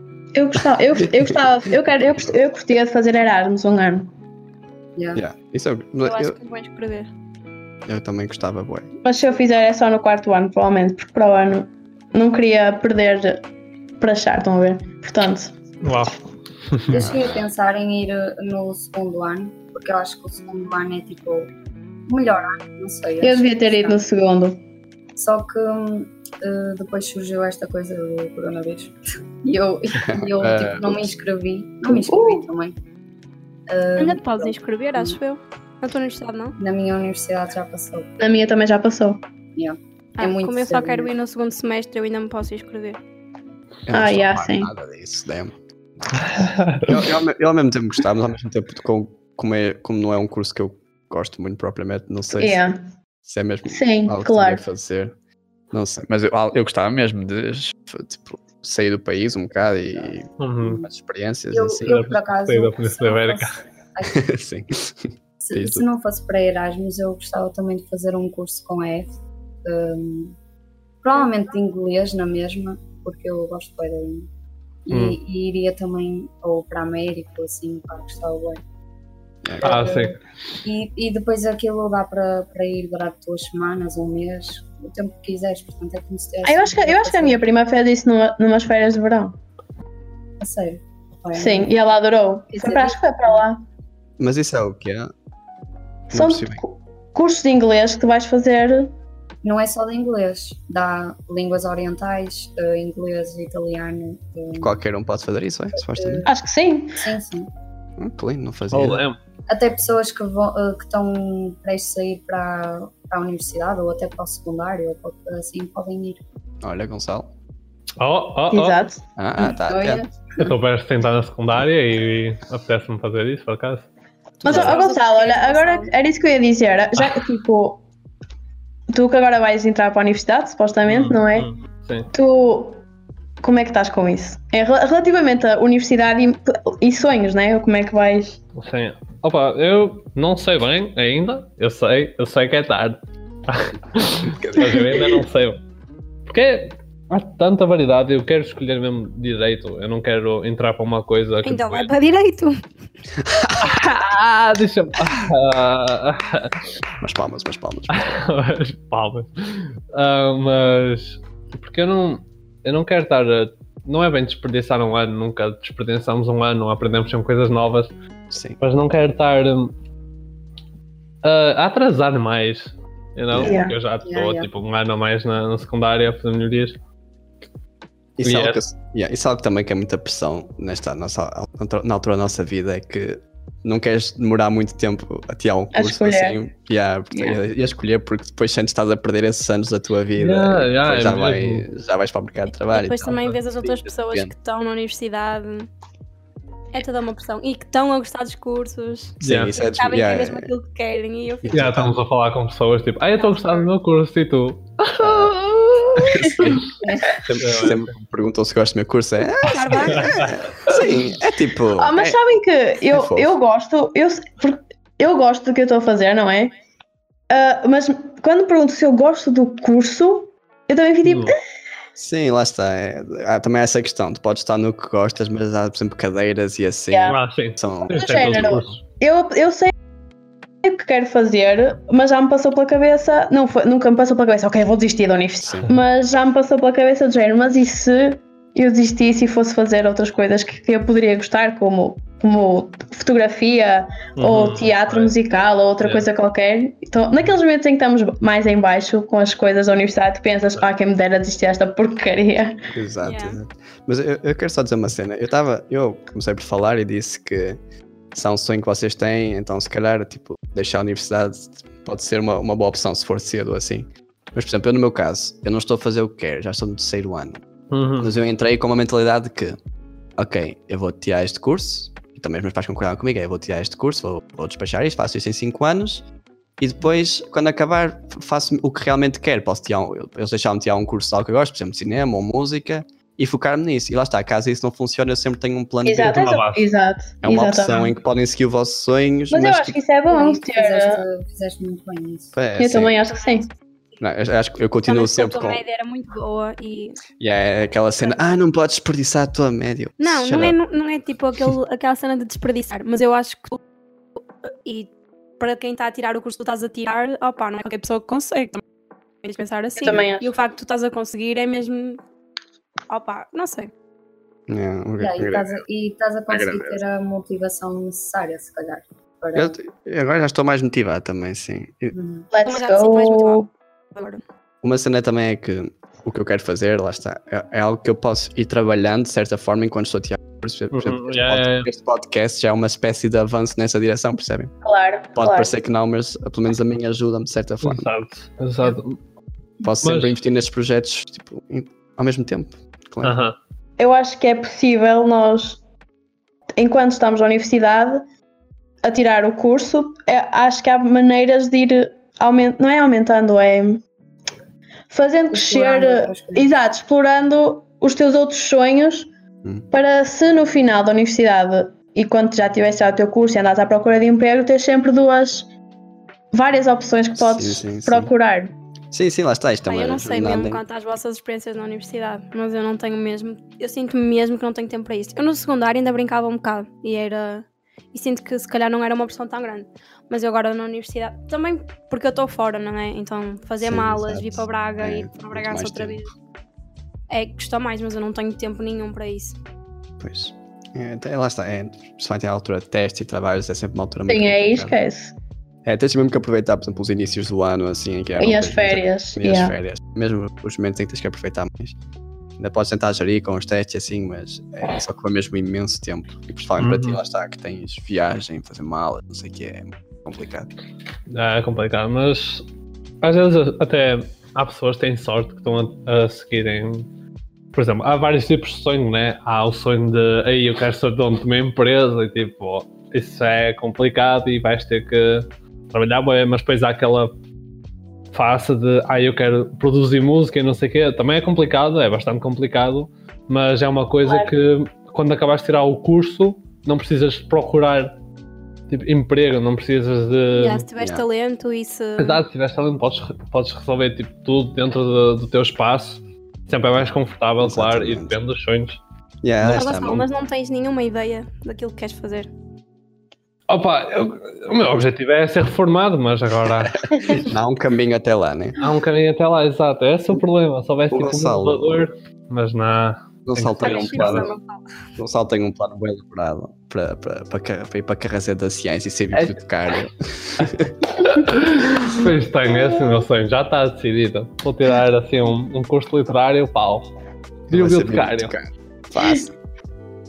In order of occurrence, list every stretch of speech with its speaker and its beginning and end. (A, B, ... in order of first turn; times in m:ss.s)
0:00.3-0:04.1 A
0:05.0-0:05.2 B
0:05.2-0:06.4 C
0:06.0-0:07.1 D
0:07.9-0:08.9 C
0:09.0-0:13.4 A
0:14.0-0:15.6 A
0:15.8-0:16.2 E
0:16.9-0:21.5 B
0:17.0-0:17.3 C
0:22.1-0:24.0 B
0:23.2-0:24.6 A
0:25.2-0:32.8 B
0:30.0-0:31.1 C
0:31.9-0:32.5 A
0:33.7-0:35.2 B
0:34.0-0:36.6 D
0:36.6-0:38.2 B
0:38.2-0:39.2 A
0:39.6-0:41.1 B
0:40.2-0:43.0 D
0:43.9-0:45.6 C
0:43.9-0:44.7 A
0:46.2-0:47.0 E
0:46.8-0:52.6 C
0:52.4-0:52.8 A
0:53.2-0:55.2 C
0:53.7-0:54.6 A
0:55.7-1:02.0 C
1:00.4-1:00.9 E
1:01.5-1:04.3 B
1:01.9-1:03.6 E
1:04.1-1:05.8 C
1:05.4-1:10.4 B
1:11.0-1:14.3 B
1:14.9-1:18.6 B
1:14.9-1:15.2 E
1:19.4-1:19.8 C
1:19.6-1:20.2 E
1:19.6-1:20.1 B
1:20.6-1:27.4 B
1:26.4-1:29.4 A
1:30.4-1:31.7 B
1:31.4-1:33.6 A
1:32.5-1:33.4 B
1:34.2-1:35.1 C
1:36.1-1:38.9 A
1:36.1-1:36.6 C
1:39.4-1:44.8 B
1:44.6-1:46.3 C
1:45.7-1:46.3 B
1:46.3-1:47.1 A
1:47.0-1:47.5 B
1:48.0-1:49.0 C
1:48.7-1:49.2 E
1:49.5-1:56.2 B
1:56.6-1:57.3 C
1:58.0-1:58.8 E
1:58.5-1:59.0 A
1:59.2-2:00.0 C
1:59.4-2:00.1 B
2:00.4-2:03.9 E
2:04.4-2:07.8 A
2:04.4-2:04.8 C
2:04.4-2:05.9 D
2:08.9-2:11.5 A
2:10.9-2:12.1 E
2:12.1-2:12.8 A
2:13.4-2:18.4 A
2:18.6-2:25.6 E
2:24.3-2:25.2 C
2:26.3-2:31.9 E
2:31.4-2:32.6 D
2:33.2-2:33.8 C
2:33.5-2:36.6 E
2:37.0-2:38.2 C
2:37.9-2:47.9 E
2:48.3-2:48.6 C
2:48.6-2:49.7 E
2:51.2-2:56.8 E
2:53.3-2:53.6 C
2:53.4-2:53.8 A
2:54.0-2:54.5 B
2:58.2-3:14.3 C
2:58.2-2:58.6 E
3:05.7-3:06.4 A
3:10.2-3:11.7 E
3:12.7-3:15.7 D
3:16.7-3:21.8 D
3:19.2-3:20.5 C
3:19.2-3:19.6 E
3:21.4-3:21.9 C
3:21.5-3:27.9 E
3:26.0-3:26.6 C
3:27.3-3:32.2 C
3:29.4-3:30.4 D
3:29.9-3:30.9 E
3:31.8-3:36.6 A
3:32.9-3:33.4 C
3:37.3-3:41.4 A
3:41.0-3:41.4 E
3:42.0-3:48.8 C
3:46.9-3:47.2 A
3:47.1-3:48.8 E
3:47.9-3:49.7 A
3:50.6-4:12.6 A
3:55.4-3:55.7 C
4:04.2-4:05.2 E
4:05.8-4:06.1 E
4:12.7-4:17.6 C
4:13.0-4:13.4 D
4:18.1-4:27.4 C
4:27.7-4:28.2 E
4:28.0-4:29.6 C
4:30.2-4:36.0 C
4:36.6-4:46.3 C
4:45.8-4:47.9 A
4:46.0-4:46.7 E
4:47.2-4:49.8 C
4:49.3-4:51.0 A
4:50.1-4:52.4 B
4:52.3-4:53.0 C
4:52.6-4:53.5 A
4:53.1-4:53.5 D
4:54.0-4:55.6 C
4:54.8-4:57.0 D
4:57.2-5:00.6 C
5:00.0-5:03.6 D
5:04.6-5:08.6 D
5:09.2-5:12.0 D
5:09.8-5:10.3 A
5:12.9-5:13.7 D
5:14.5-5:15.6 C
5:15.0-5:19.6 B
5:16.3-5:16.8 C
5:19.4-5:21.9 C
5:21.9-5:22.3 B
5:22.3-5:23.5 A
5:22.4-5:24.2 D
5:24.6-5:34.5 C
5:30.7-5:31.7 E
5:34.6-5:35.5 A
5:35.2-5:37.9 C
5:37.6-5:39.0 E
5:39.6-5:43.2 C
5:39.8-5:40.2 E
5:43.0-5:43.4 E
5:43.8-5:45.6 A
5:46.6-5:48.0 A
5:48.8-5:53.8 A
5:54.9-5:59.1 A
5:55.3-5:56.5 B
5:59.7-6:05.5 A
6:06.3-6:08.5 A
6:07.2-6:08.1 C
6:08.9-6:10.6 C
6:09.7-6:26.1 D
6:23.6-6:26.0 C
6:27.1-6:29.4 D
6:30.0-6:34.8 C
6:34.1-6:35.1 A
6:35.6-6:41.8 C
6:38.2-6:39.5 A
6:42.4-6:50.5 C
6:46.6-6:47.0 E
6:51.1-6:52.4 E
6:53.0-6:56.9 E
6:57.5-7:07.1 E
7:08.1-7:18.0 E
7:18.7-7:20.7 E
7:20.4-7:22.2 D
7:20.8-7:21.0 C
7:22.0-7:28.8 E
7:26.8-7:28.2 C
7:29.2-7:30.1 C
7:29.4-7:32.3 D
7:29.5-7:29.7 E
7:33.5-7:36.9 E
7:36.6-7:38.6 C
7:38.6-7:44.3 E
7:40.9-7:41.9 C
7:43.3-7:44.3 C
7:43.6-7:44.6 D
7:45.0-7:50.9 C
7:49.1-7:49.4 E
7:51.0-7:56.9 E
7:57.5-7:59.3 C
7:57.5-7:58.4 E